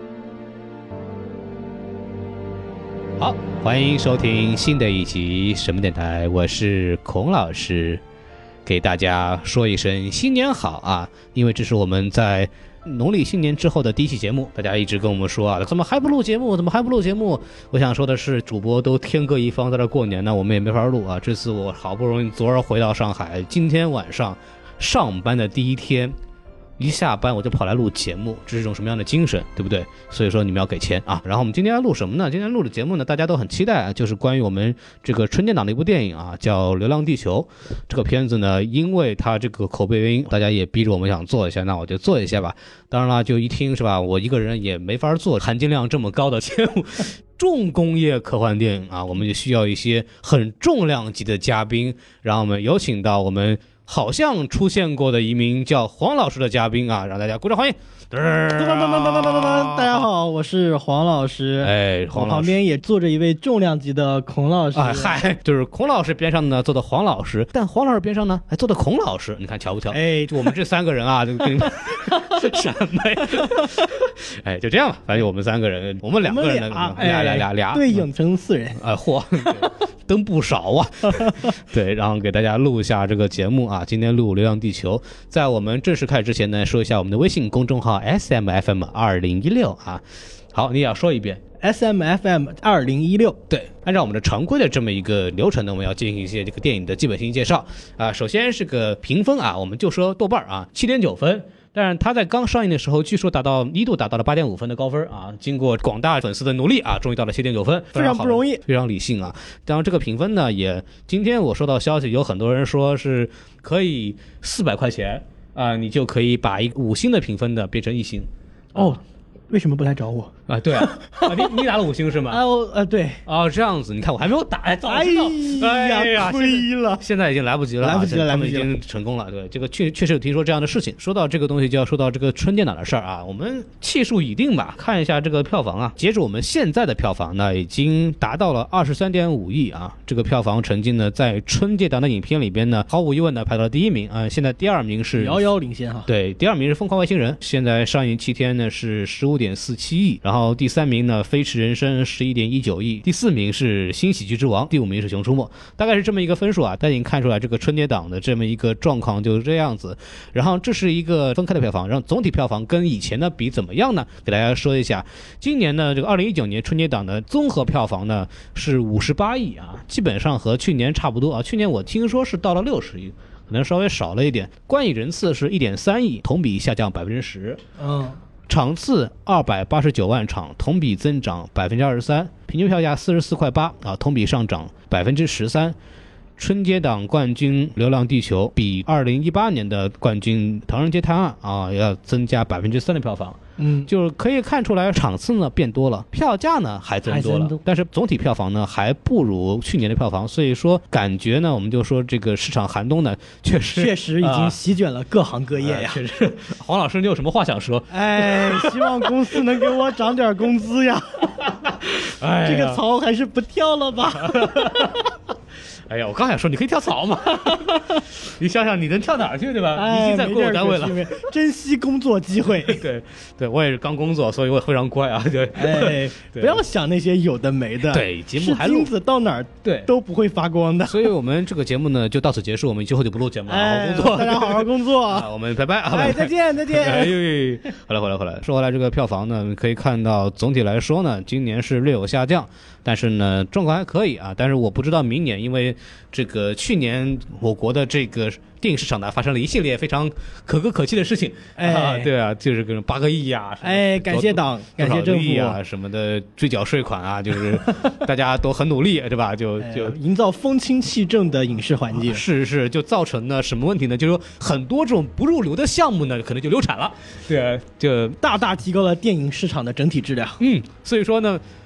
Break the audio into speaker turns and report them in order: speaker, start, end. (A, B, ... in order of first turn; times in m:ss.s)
0:03.2-0:08.0 A
0:08.6-0:26.2 A
0:26.8-1:00.1 A
0:58.6-1:05.2 B
1:01.6-1:02.6 A
1:04.7-1:18.0 A
1:09.9-1:10.5 B
1:12.1-1:12.4 B
1:16.2-1:18.8 B
1:18.8-1:31.4 A
1:21.2-1:21.5 B
1:31.6-1:33.4 B
1:33.5-1:58.9 A
1:48.0-1:48.6 B
1:58.8-2:01.5 B
2:00.5-2:02.4 A
2:02.3-2:03.2 B
2:03.3-2:25.4 A
2:04.9-2:07.0 B
2:07.8-2:08.7 B
2:25.2-2:26.1 B
2:26.1-2:57.6 A
2:57.8-2:58.2 B
2:58.5-3:05.8 A
3:06.4-3:24.6 A
3:13.6-3:13.9 B
3:17.1-3:17.6 B
3:23.8-3:26.0 B
3:25.6-3:29.4 A
3:27.9-3:31.6 B
3:31.9-3:32.8 A
3:32.4-3:34.9 B
3:34.2-3:35.0 A
3:35.9-3:41.2 A
3:39.7-3:42.8 B
3:42.7-3:46.6 A
3:45.6-3:51.1 B
3:47.8-3:48.9 A
3:49.6-3:49.9 A
3:50.9-4:20.0 A
3:53.5-3:55.3 B
3:55.9-3:57.2 B
4:11.6-4:12.1 B
4:13.6-4:15.6 B
4:19.6-4:22.2 B
4:21.9-4:28.2 A
4:28.2-4:30.4 B
4:30.4-4:31.4 A